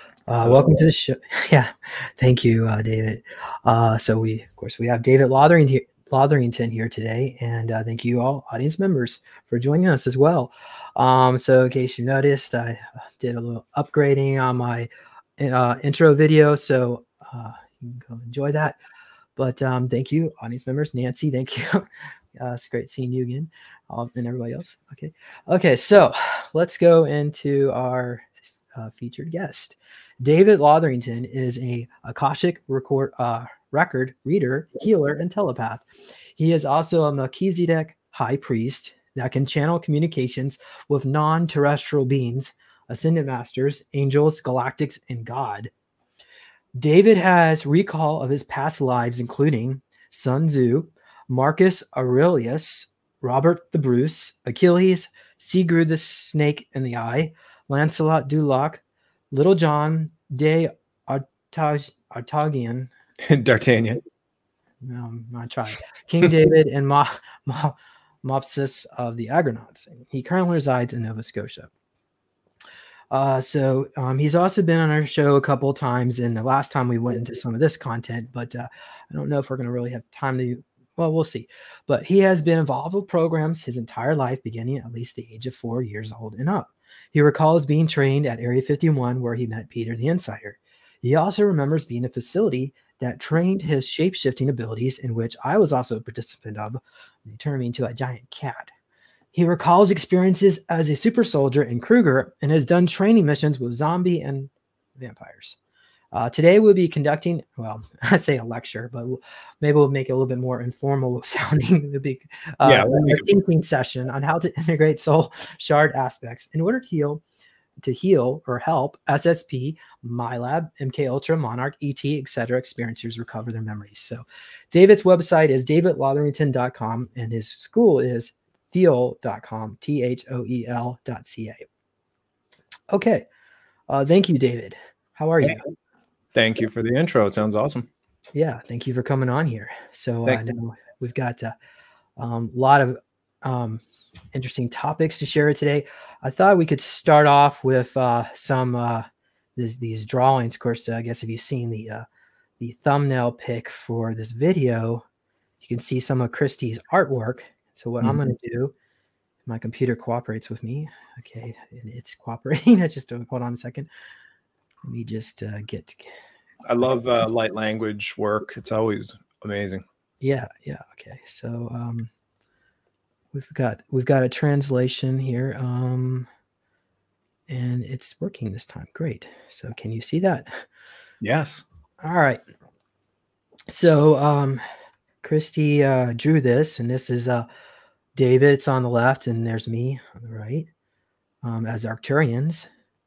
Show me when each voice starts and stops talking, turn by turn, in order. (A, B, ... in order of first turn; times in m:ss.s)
0:00.3-0:18.8 A
0:19.4-0:35.8 A
0:36.4-0:45.7 A
0:46.8-1:02.9 A
1:03.2-1:04.0 B
1:04.8-1:11.7 A
1:13.1-1:38.7 A
1:39.3-1:45.6 A
1:46.1-1:57.2 A
1:52.6-1:53.3 B
1:57.8-2:11.6 A
2:12.9-2:13.3 A
2:13.9-2:15.6 A
2:15.4-2:15.7 B
2:16.4-2:17.9 B
2:18.4-2:21.6 A
2:22.2-2:32.0 A
2:32.6-2:35.0 A
2:35.6-2:38.7 A
2:39.4-2:43.9 A
2:44.8-2:46.1 A
2:46.6-2:49.8 B
2:50.2-2:52.1 A
2:53.3-2:56.3 A
2:57.5-3:00.6 A
3:01.2-3:01.6 B
3:02.0-3:02.4 A
3:03.7-3:04.6 A
3:05.2-3:07.5 A
3:08.2-3:10.7 A
3:11.4-3:12.7 A